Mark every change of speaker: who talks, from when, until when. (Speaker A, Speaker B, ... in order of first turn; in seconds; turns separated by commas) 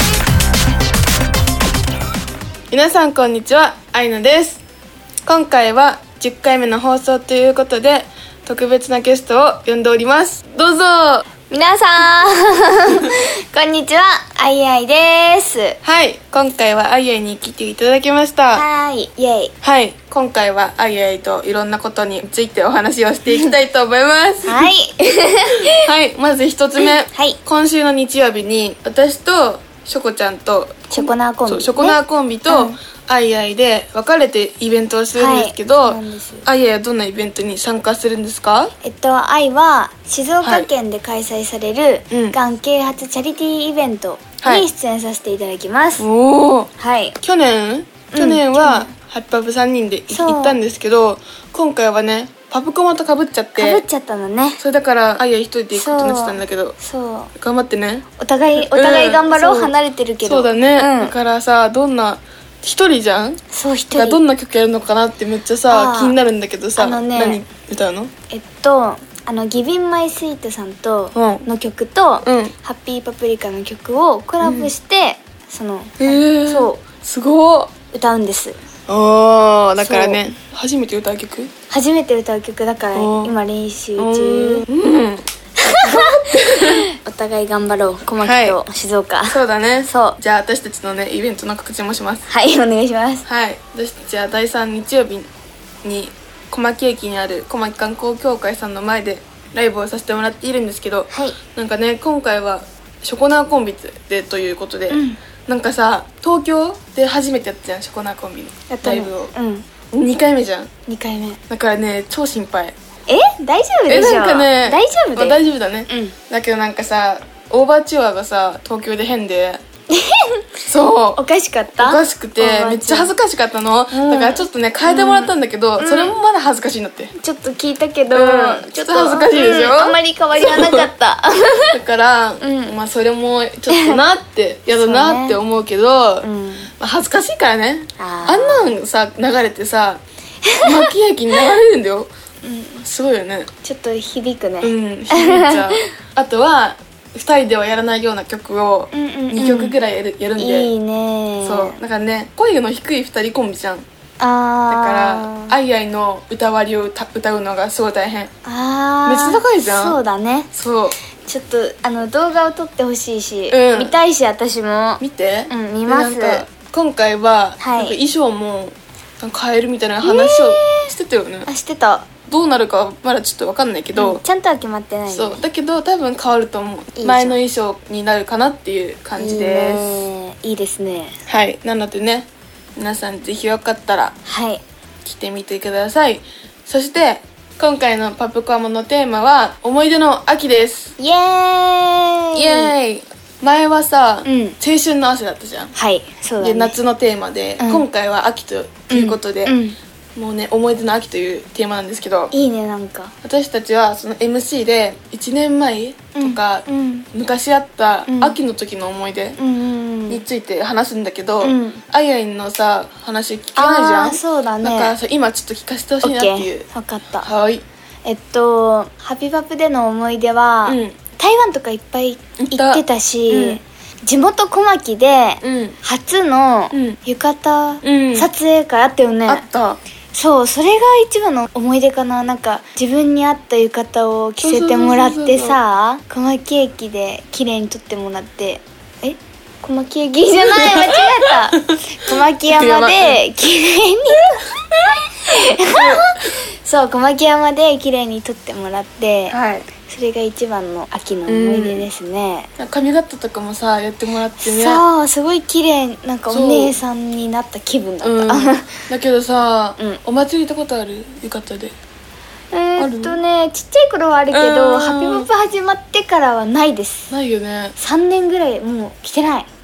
Speaker A: 2.7-4.6, Speaker A: 5.2-11.3, Speaker B: 11.5-15.8, Speaker A: 15.8-18.6, Speaker B: 18.5-19.5, Speaker A: 19.6-24.7, Speaker B: 24.5-25.8, Speaker A: 25.7-38.7, Speaker B: 27.1-27.4, Speaker B: 30.9-32.8, Speaker B: 35.1-36.5, Speaker B: 38.8-46.0, Speaker A: 40.4-40.7, Speaker A: 42.1-42.4, Speaker A: 44.4-44.7, Speaker A: 46.0-46.7, Speaker B: 46.8-47.2, Speaker A: 47.2-53.8, Speaker B: 48.1-48.9, Speaker B: 50.1-50.6, Speaker B: 53.6-54.6, Speaker A: 54.6-56.8, Speaker B: 55.7-57.3, Speaker A: 57.4-58.0, Speaker B: 58.2-61.1, Speaker A: 58.6-63.4, Speaker B: 63.5-64.2, Speaker A: 63.9-68.1, Speaker B: 65.7-66.2, Speaker B: 66.8-67.5, Speaker B: 68.3-76.8, Speaker A: 71.2-71.5, Speaker A: 72.2-72.5, Speaker A: 74.4-74.7, Speaker A: 76.0-77.7, Speaker B: 77.9-78.6, Speaker A: 78.9-81.5, Speaker B: 79.8-80.2, Speaker B: 81.7-84.7, Speaker A: 82.9-83.3, Speaker A: 84.0-85.2, Speaker B: 85.6-90.2, Speaker A: 85.8-86.8, Speaker A: 88.2-88.6, Speaker A: 89.3-92.2, Speaker B: 92.3-93.2, Speaker A: 93.3-95.3, Speaker A: 95.8-109.3, Speaker B: 101.1-101.4, Speaker B: 104.9-105.2, Speaker B: 108.7-109.7, Speaker A: 109.9-110.7, Speaker B: 110.9-111.4, Speaker A: 111.5-112.8, Speaker B: 113.1-116.2, Speaker A: 113.9-119.6, Speaker B: 119.9-120.4, Speaker A: 120.7-121.2, Speaker B: 121.2-123.1, Speaker A: 121.8-127.1, Speaker B: 123.9-126.2, Speaker B: 127.2-131.7, Speaker A: 128.1-130.9, Speaker A: 131.7-136.3, Speaker B: 132.4-132.7, Speaker B: 133.7-134.0, Speaker B: 134.7-135.4, Speaker B: 136.2-136.7, Speaker A: 136.8-140.0, Speaker B: 138.0-138.8, Speaker B: 140.4-140.9, Speaker A: 140.6-142.1, Speaker B: 142.4-142.8, Speaker A: 142.8-143.5, Speaker B: 143.6-145.8, Speaker A: 144.6-150.7, Speaker B: 148.9-149.8, Speaker B: 150.4-151.8, Speaker A: 151.4-153.9, Speaker B: 154.2-155.6, Speaker A: 154.7-158.3, Speaker B: 158.4-160.5, Speaker A: 159.1-160.0, Speaker A: 160.5-161.0, Speaker B: 161.2-166.4, Speaker A: 163.5-164.0, Speaker A: 165.0-171.5, Speaker B: 167.6-168.0, Speaker B: 170.0-170.9, Speaker B: 171.5-172.1, Speaker A: 172.3-174.2, Speaker B: 174.0-175.4, Speaker A: 175.1-180.1, Speaker B: 177.0-177.4, Speaker B: 179.2-181.1, Speaker A: 181.3-184.2, Speaker B: 184.3-184.6, Speaker A: 185.0-190.9, Speaker B: 191.0-192.7, Speaker A: 192.3-195.7, Speaker B: 194.2-194.6, Speaker B: 195.8-196.8, Speaker A: 196.4-199.6, Speaker B: 197.6-197.9, Speaker B: 198.9-199.8, Speaker A: 200.2-202.3, Speaker B: 202.3-203.1, Speaker A: 203.2-209.4, Speaker B: 206.2-207.1, Speaker B: 208.1-208.4, Speaker B: 209.4-210.2, Speaker A: 210.1-216.7, Speaker B: 211.4-211.8, Speaker B: 213.6-214.9, Speaker B: 216.0-217.3, Speaker A: 217.2-217.6, Speaker B: 218.1-229.4, Speaker A: 220.7-221.0, Speaker A: 222.4-223.6, Speaker A: 225.4-225.8, Speaker A: 226.7-227.0, Speaker A: 227.8-228.3, Speaker A: 229.3-229.8, Speaker B: 230.1-244.5, Speaker A: 234.4-235.6, Speaker A: 240.5-241.8, Speaker A: 242.5-243.2, Speaker B: 245.3-252.5, Speaker A: 245.7-246.1, Speaker A: 249.3-249.7, Speaker A: 251.3-251.9, Speaker A: 252.6-254.8, Speaker B: 254.4-258.7, Speaker A: 256.3-256.8, Speaker A: 258.0-261.7, Speaker B: 262.5-267.1, Speaker A: 262.8-263.2, Speaker A: 264.3-265.3, Speaker A: 267.1-267.8, Speaker B: 267.8-269.5